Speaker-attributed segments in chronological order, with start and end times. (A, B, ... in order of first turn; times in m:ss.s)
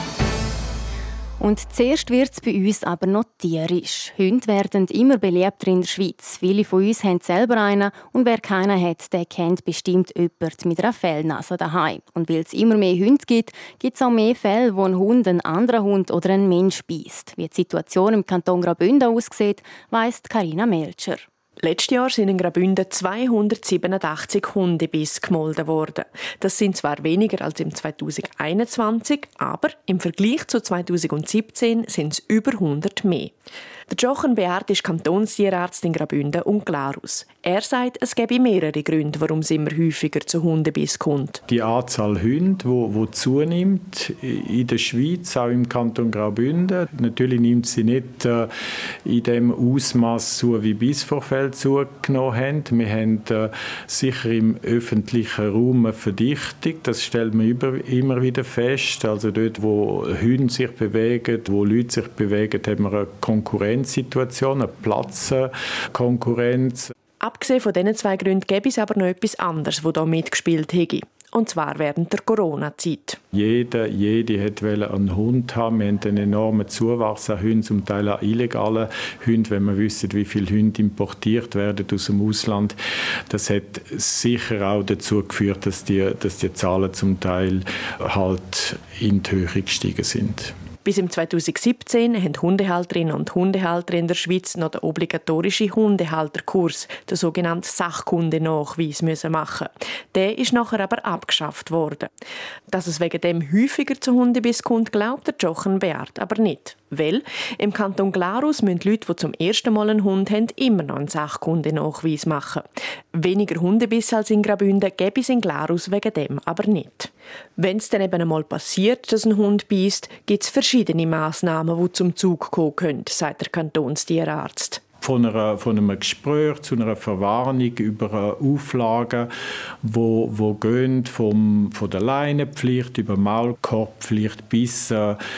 0:01.4-0:21.3 A
0:21.6-0:33.4 B
0:33.9-0:41.4 B
0:41.5-0:48.5 C
0:49.0-1:06.9 C
1:07.2-1:13.2 B
1:13.3-1:22.8 C
1:23.3-1:30.6 C
1:30.8-1:42.1 B
1:42.7-2:04.8 B
2:05.0-2:09.3 C
2:09.8-2:15.2 C